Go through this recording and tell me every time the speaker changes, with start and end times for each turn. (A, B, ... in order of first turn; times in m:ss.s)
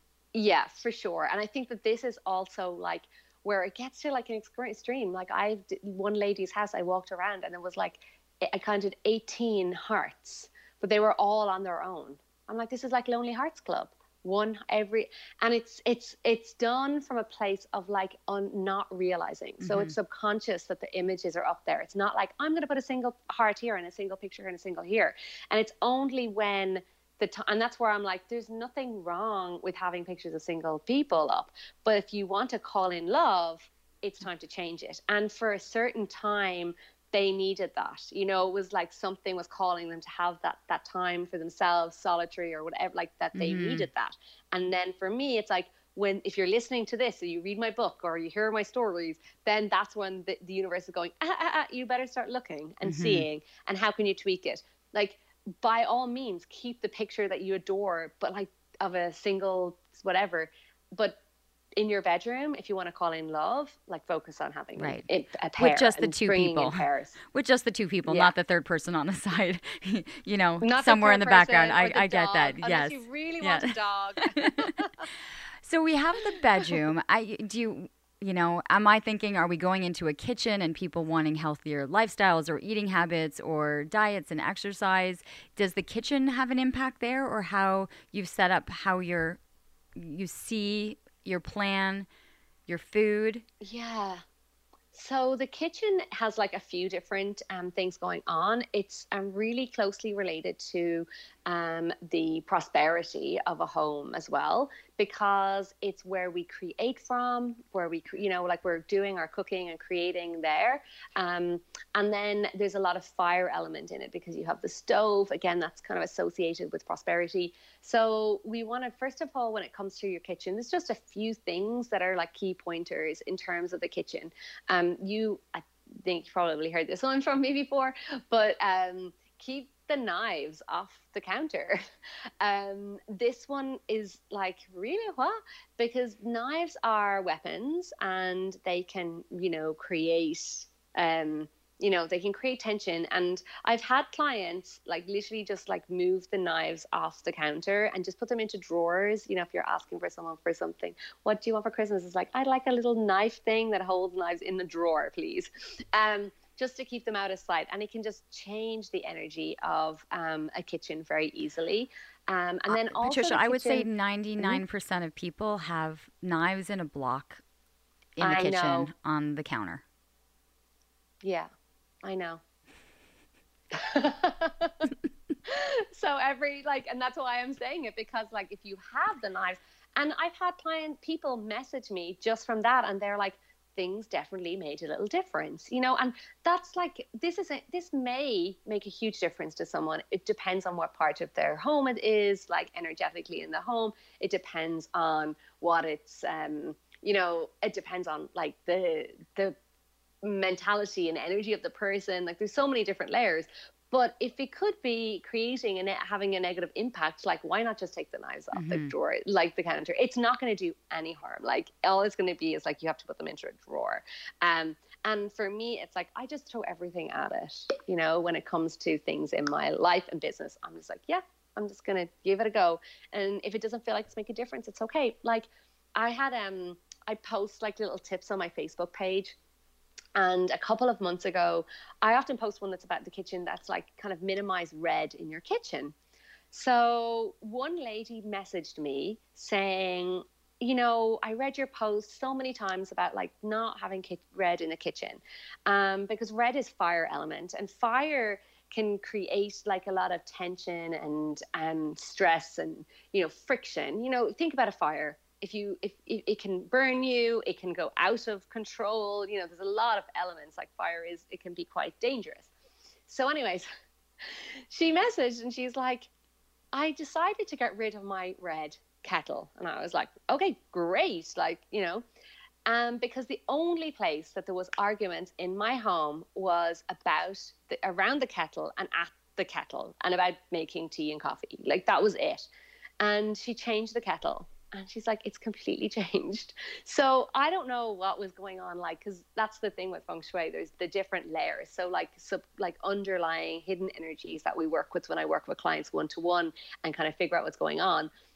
0:00.3-1:01.2 A
0:19.6-0:19.9 B
0:43.4-0:43.9 B
0:52.8-0:53.3 B
1:01.8-1:07.2 A
1:04.8-1:05.1 B
1:05.6-1:14.7 B
1:08.1-1:08.3 A
1:10.6-1:15.1 A
1:15.6-1:29.4 B
1:30.0-1:32.1 B
1:32.7-1:33.4 B
1:33.6-1:34.2 A
1:34.9-2:11.8 A
2:12.4-2:43.9 A
2:42.7-2:47.4 B
2:48.2-2:49.8 B
2:48.2-2:48.9 A
2:51.2-2:51.5 A
2:52.0-2:52.4 A
2:53.7-2:54.9 A
2:55.5-3:19.6 A
3:20.2-3:49.4 A
3:28.5-3:28.9 B
3:50.2-3:55.9 A
3:56.5-4:22.5 A
4:23.1-4:23.7 A
4:24.7-4:26.1 A
4:26.7-4:32.0 A
4:32.7-4:42.5 A
4:43.0-4:58.1 A